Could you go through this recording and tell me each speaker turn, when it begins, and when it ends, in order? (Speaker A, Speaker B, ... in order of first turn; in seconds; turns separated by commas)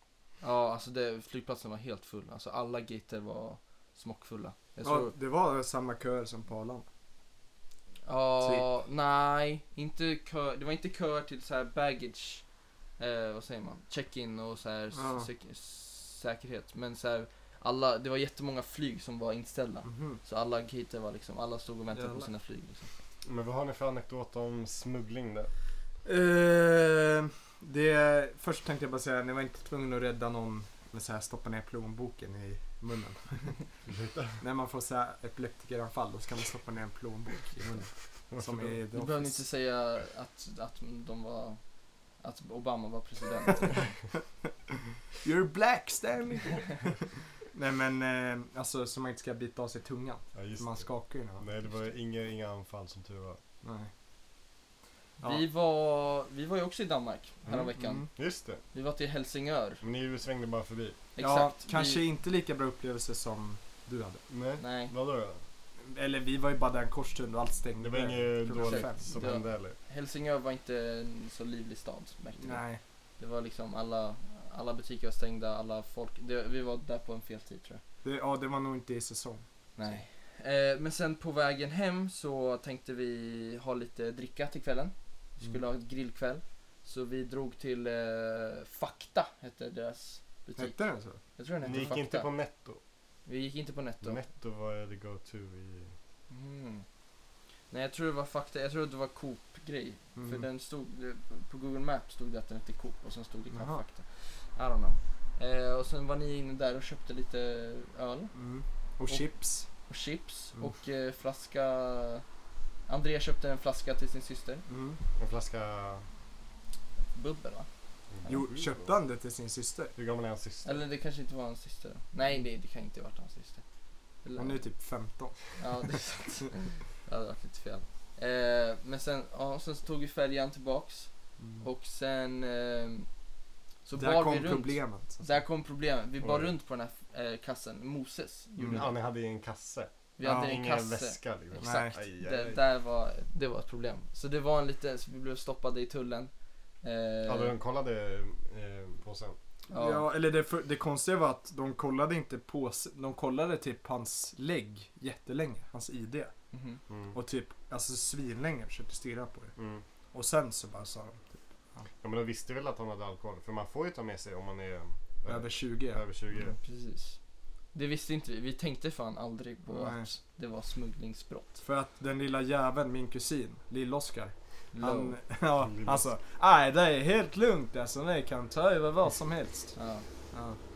Speaker A: 0.4-5.1, Speaker B: 4.8-6.8, Speaker A: 8.0-12.4, Speaker A: 13.0-22.9, Speaker B: 14.9-15.3, Speaker B: 19.8-20.2, Speaker B: 21.9-22.3, Speaker C: 23.2-25.5, Speaker B: 26.0-33.5, Speaker C: 33.8-34.4, Speaker B: 34.4-39.4, Speaker C: 38.3-38.8, Speaker A: 38.9-41.6, Speaker A: 42.2-43.9, Speaker B: 45.2-46.9, Speaker B: 47.5-51.5, Speaker C: 50.3-53.4, Speaker B: 53.6-53.9, Speaker A: 55.2-58.1, Speaker C: 57.5-58.6, Speaker B: 57.7-58.1, Speaker A: 58.7-59.8, Speaker C: 59.8-61.0, Speaker A: 61.1-62.0, Speaker B: 61.2-64.2, Speaker C: 64.3-65.4, Speaker A: 64.6-64.9, Speaker B: 65.8-69.2, Speaker C: 67.7-69.8, Speaker A: 68.6-72.6, Speaker B: 72.4-72.8, Speaker A: 73.2-77.8, Speaker B: 78.0-79.4, Speaker A: 79.8-92.3, Speaker B: 90.6-91.2, Speaker C: 91.6-92.8, Speaker A: 93.2-94.2, Speaker C: 94.0-95.9, Speaker A: 96.3-96.8, Speaker A: 97.7-108.3, Speaker B: 100.2-100.5, Speaker B: 103.5-103.8, Speaker B: 108.3-109.7, Speaker A: 109.9-112.2, Speaker A: 112.9-114.6, Speaker B: 114.7-115.0, Speaker C: 115.2-116.0, Speaker A: 117.1-117.7, Speaker C: 118.1-118.8, Speaker A: 118.2-118.5, Speaker B: 118.2-119.9, Speaker C: 120.0-120.8, Speaker A: 120.6-123.6, Speaker A: 124.2-124.7, Speaker B: 124.4-125.4, Speaker A: 125.6-133.1, Speaker A: 133.8-139.0, Speaker B: 133.9-135.2, Speaker C: 136.2-136.5, Speaker B: 138.6-138.8, Speaker C: 138.6-142.6, Speaker A: 140.2-147.5, Speaker B: 140.2-140.5, Speaker B: 141.6-142.0, Speaker C: 147.2-149.4, Speaker A: 149.7-150.1, Speaker B: 149.7-156.3, Speaker A: 156.5-156.8, Speaker C: 156.9-157.2, Speaker B: 157.1-159.5, Speaker C: 159.6-159.8, Speaker B: 160.1-161.8, Speaker C: 162.0-166.6, Speaker B: 165.2-166.0, Speaker A: 166.6-167.2, Speaker A: 167.7-171.6, Speaker B: 169.7-170.1, Speaker B: 171.6-179.7, Speaker A: 174.7-175.2, Speaker C: 175.6-176.1, Speaker A: 179.7-180.1, Speaker B: 180.3-180.6